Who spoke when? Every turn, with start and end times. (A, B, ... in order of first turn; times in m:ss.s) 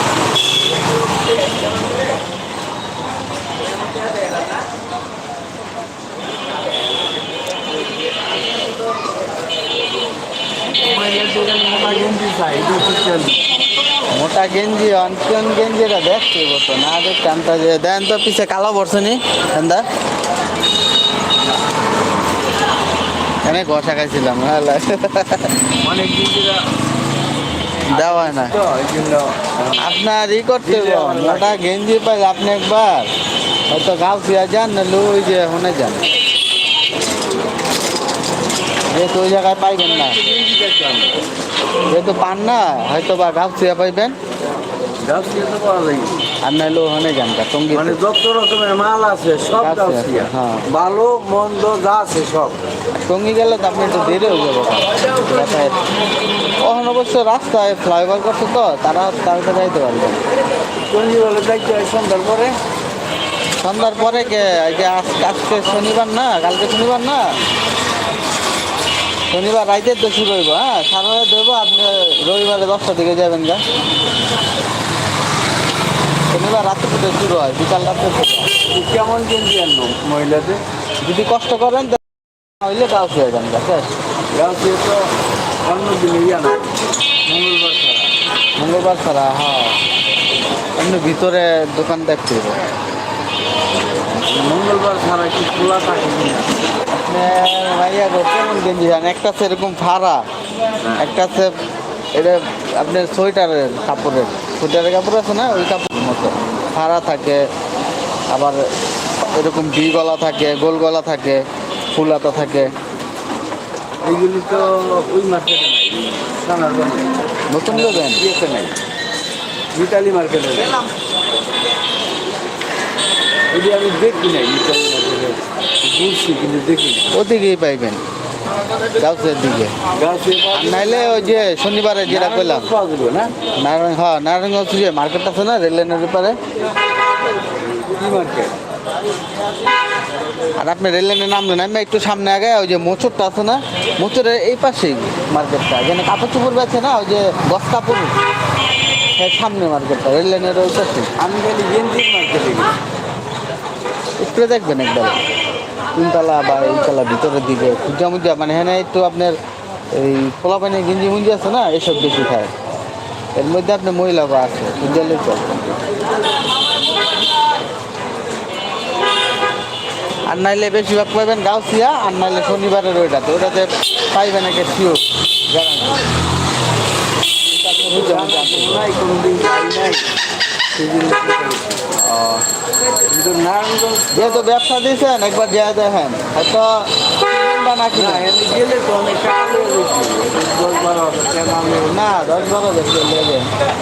0:10.8-0:13.4 A
0:14.1-0:19.9 B
0:23.4-0:25.5 B
0:25.8-0:26.6 A
0:27.8-0:29.9 A
0:27.9-0:28.6 B
0:29.8-0:33.1 B
0:30.6-0:31.6 A
0:33.7-0:36.0 B
0:38.9-0:40.2 B
0:39.8-0:41.2 A
0:41.9-0:44.2 B
0:45.0-0:46.2 A
0:46.4-0:48.0 B
0:47.7-0:52.6 A
0:49.6-0:50.6 B
0:53.1-0:55.8 B
0:56.6-1:00.2 B
1:00.9-1:02.6 A
1:03.6-1:07.3 B
1:09.3-1:13.6 B
1:16.3-1:18.5 B
1:18.7-1:20.6 A
1:21.0-1:22.0 B
1:22.6-1:23.9 B
1:24.3-1:25.1 A
1:25.6-1:28.1 A
1:28.6-1:29.8 B
1:30.8-1:32.6 B
1:34.2-1:36.5 A
1:36.9-1:40.2 B
1:41.0-1:41.6 B
1:42.1-1:47.5 B
1:48.3-1:48.6 B
1:49.3-1:52.7 B
1:54.0-1:57.1 A
1:57.5-1:58.2 B
1:57.7-1:58.8 A
1:59.7-2:00.8 A
2:03.5-2:07.1 A
2:07.1-2:08.0 B
2:09.0-2:09.8 B
2:09.9-2:11.4 A
2:10.5-2:12.7 B
2:12.0-2:13.3 A
2:13.6-2:16.4 B
2:17.5-2:18.6 A
2:20.6-2:28.1 B
2:29.2-2:31.1 B
2:31.2-2:32.7 A
2:34.2-2:35.2 B
2:35.9-2:39.4 B
2:39.9-2:42.5 B
2:43.4-2:45.6 B
2:50.3-2:56.0 B
2:57.6-2:58.9 B
2:57.8-3:00.1 A
3:00.7-3:01.8 A
3:02.0-3:02.4 B
3:03.1-3:04.4 A
3:04.1-3:08.3 B
3:07.9-3:12.2 A
3:11.8-3:13.5 B